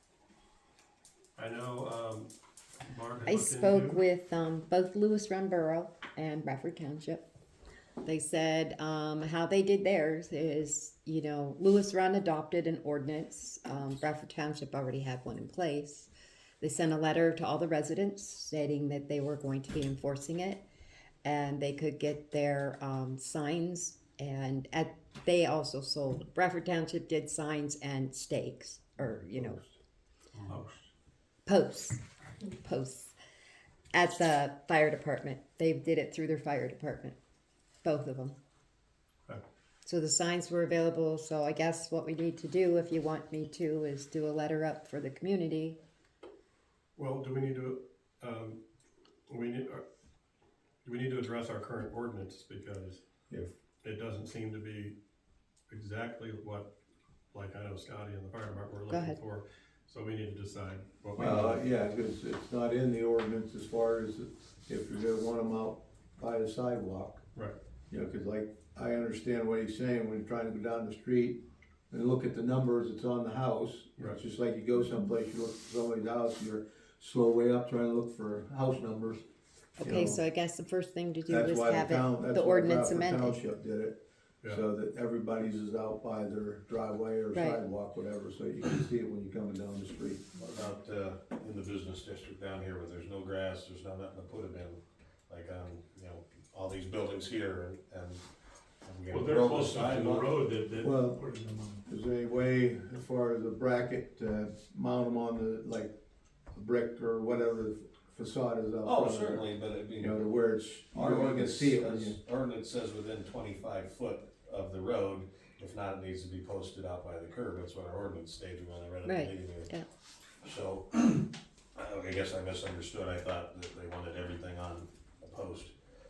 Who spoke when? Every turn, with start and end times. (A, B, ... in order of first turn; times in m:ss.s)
0:01.4-0:02.3 A
0:02.8-0:04.0 A
0:03.2-0:07.2 B
0:08.0-0:16.1 B
0:16.6-0:20.6 B
0:21.2-0:29.6 B
0:30.3-0:30.7 A
0:30.5-0:30.8 C
0:31.4-0:33.1 B
0:33.9-0:37.2 B
0:37.8-0:38.4 B
0:39.8-0:45.8 B
0:47.0-0:48.6 A
0:49.3-0:49.8 A
0:50.8-0:53.0 A
0:53.8-0:54.9 A
0:55.7-0:56.7 A
0:57.3-1:01.6 A
0:58.9-0:59.2 B
1:01.2-1:07.2 D
1:07.9-1:19.2 D
1:19.8-1:20.2 D
1:19.8-1:23.4 B
1:21.3-1:30.2 D
1:27.3-1:27.6 B
1:30.4-1:38.3 E
1:38.8-1:40.4 E
1:39.1-1:41.8 C
1:40.8-1:41.3 D
1:41.8-1:45.9 D
1:46.5-1:52.2 D
1:48.8-1:50.2 E
1:50.9-1:59.7 E
1:59.0-1:59.9 B
2:00.4-2:05.7 E